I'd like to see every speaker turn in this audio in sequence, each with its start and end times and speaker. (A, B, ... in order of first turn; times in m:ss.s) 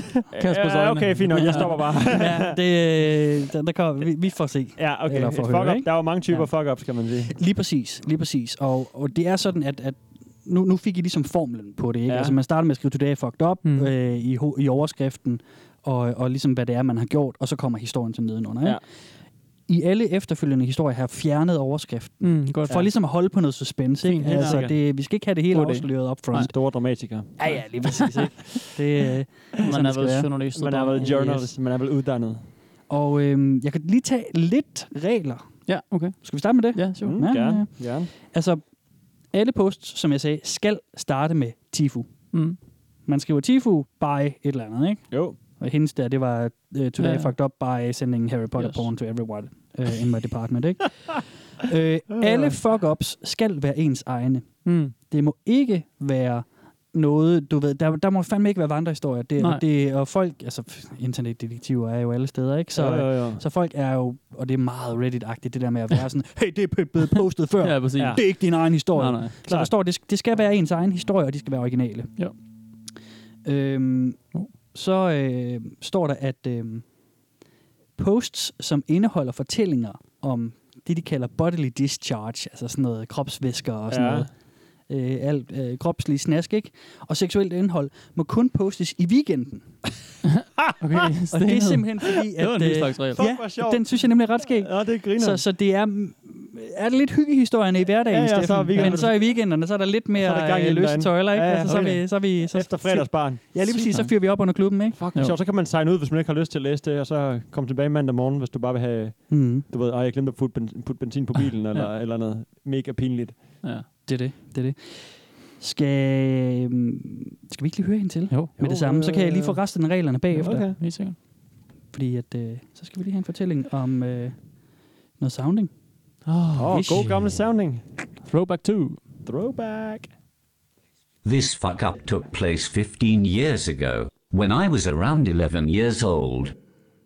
0:00.3-0:02.6 A
0:00.3-0:01.7 B
0:01.3-0:05.9 C
0:04.8-0:07.3 A
0:07.4-0:18.8 C
0:12.1-0:12.4 A
0:13.6-0:13.9 B
0:19.7-0:26.5 C
0:22.2-0:22.8 B
0:24.0-0:24.8 B
0:24.3-0:24.8 A
0:25.5-0:26.5 B
0:26.4-0:27.4 A
0:27.4-0:30.3 C
0:27.4-0:28.3 B
0:29.6-0:31.3 B
0:30.6-0:32.4 A
0:31.0-0:31.5 C
0:32.9-0:38.6 C
0:35.7-0:37.3 B
0:37.0-0:38.1 A
0:39.3-0:42.1 C
0:42.3-0:42.6 B
0:43.0-1:12.1 C
0:45.1-0:45.4 A
0:47.0-0:47.3 B
0:48.6-0:48.9 B
0:54.6-0:54.9 B
0:59.4-0:59.6 B
1:02.8-1:03.4 A
1:07.6-1:09.4 B
1:09.4-1:09.7 A
1:13.4-1:14.2 C
1:14.7-1:16.8 C
1:18.0-1:24.3 C
1:23.9-1:24.3 A
1:24.9-1:29.8 C
1:30.3-1:31.9 B
1:31.3-1:45.0 C
1:32.4-1:33.2 B
1:33.2-1:35.4 A
1:38.1-1:39.4 A
1:38.7-1:39.1 B
1:40.2-1:43.4 A
1:41.6-1:42.0 B
1:43.6-1:44.1 B
1:45.0-1:53.6 A
1:49.3-1:49.6 C
1:54.0-2:00.7 C
1:58.6-1:59.6 A
2:00.3-2:01.2 B
2:00.4-2:00.8 A
2:01.9-2:04.4 C
2:05.2-2:05.7 C
2:06.2-2:07.2 B
2:06.6-2:07.9 A
2:06.7-2:07.1 C
2:08.2-2:09.0 B
2:09.2-2:10.1 A
2:11.2-2:16.5 D